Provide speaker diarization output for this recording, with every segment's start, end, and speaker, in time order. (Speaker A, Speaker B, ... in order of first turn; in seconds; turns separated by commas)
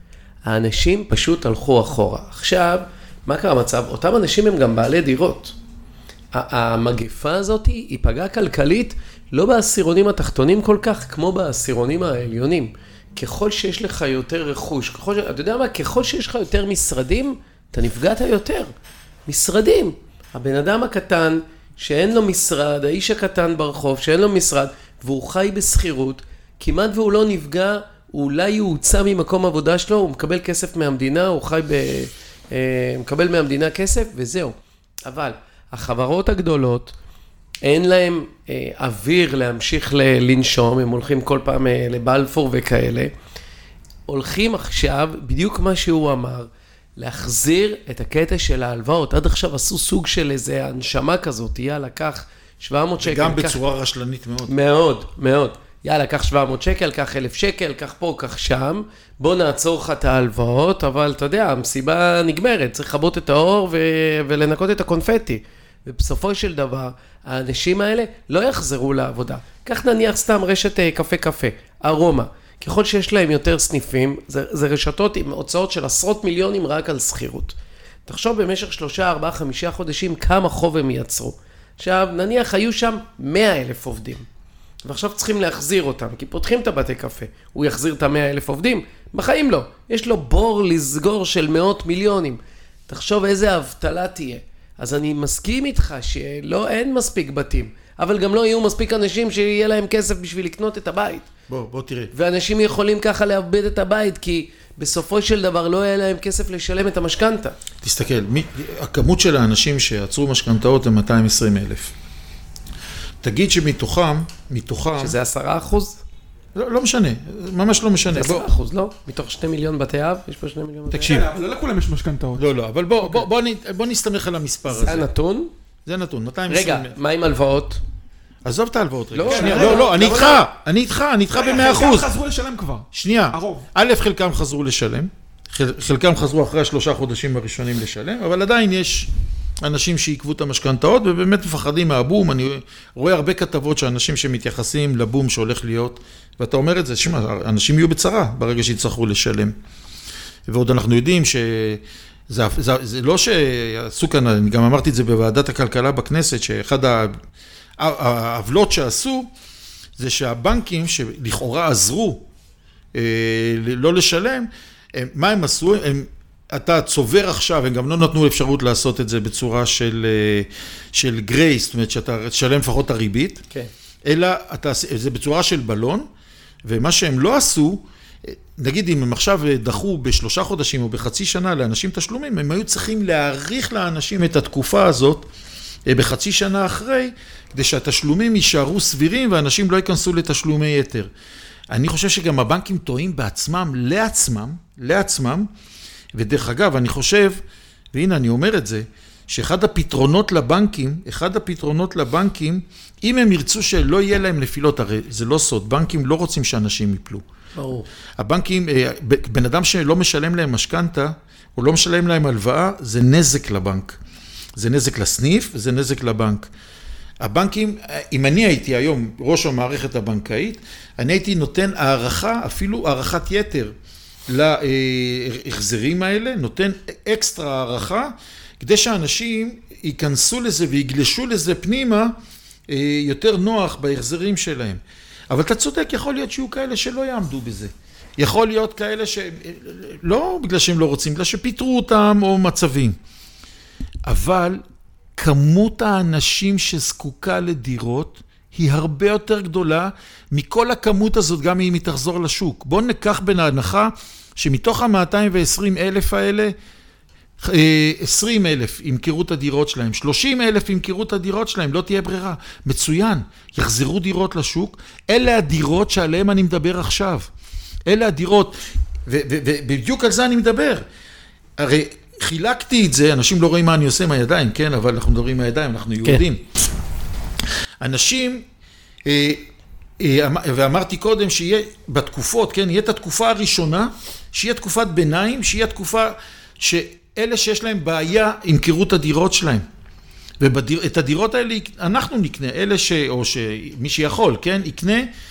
Speaker A: 0.4-5.5, Speaker A: 6.3-18.7, Speaker A: 19.3-36.9, Speaker A: 37.6-43.1, Speaker A: 44.1-53.6, Speaker B: 53.0-54.5, Speaker A: 54.5-84.3, Speaker A: 84.8-101.3, Speaker B: 101.5-102.1, Speaker A: 102.1-107.6, Speaker B: 107.8-111.9, Speaker B: 113.2-115.2, Speaker A: 115.0-116.0, Speaker B: 116.5-118.5, Speaker A: 118.1-121.2, Speaker B: 120.9-121.3, Speaker C: 121.0-122.5, Speaker B: 122.4-125.1, Speaker A: 124.7-125.5, Speaker B: 125.9-127.0, Speaker A: 126.5-127.8, Speaker B: 128.4-132.1, Speaker A: 129.1-130.5, Speaker C: 129.3-130.3, Speaker C: 131.3-133.7, Speaker B: 132.9-139.1, Speaker B: 139.6-149.6, Speaker B: 150.5-157.2, Speaker B: 157.8-159.3, Speaker B: 160.0-162.3, Speaker B: 162.9-173.4, Speaker B: 174.1-176.1, Speaker B: 176.7-185.3, Speaker B: 185.9-191.1, Speaker B: 191.7-195.5, Speaker B: 196.2-197.4, Speaker B: 197.9-207.2, Speaker A: 207.6-207.9, Speaker B: 208.2-214.0, Speaker B: 214.6-216.5, Speaker B: 217.2-223.7, Speaker B: 224.3-232.2, Speaker B: 232.7-243.0, Speaker B: 244.1-244.6, Speaker B: 245.2-256.5, Speaker B: 257.4-267.3, Speaker B: 267.9-270.9, Speaker B: 271.6-276.4, Speaker B: 277.8-278.5, Speaker B: 279.1-279.4, Speaker B: 280.0-289.7, Speaker B: 290.4-295.1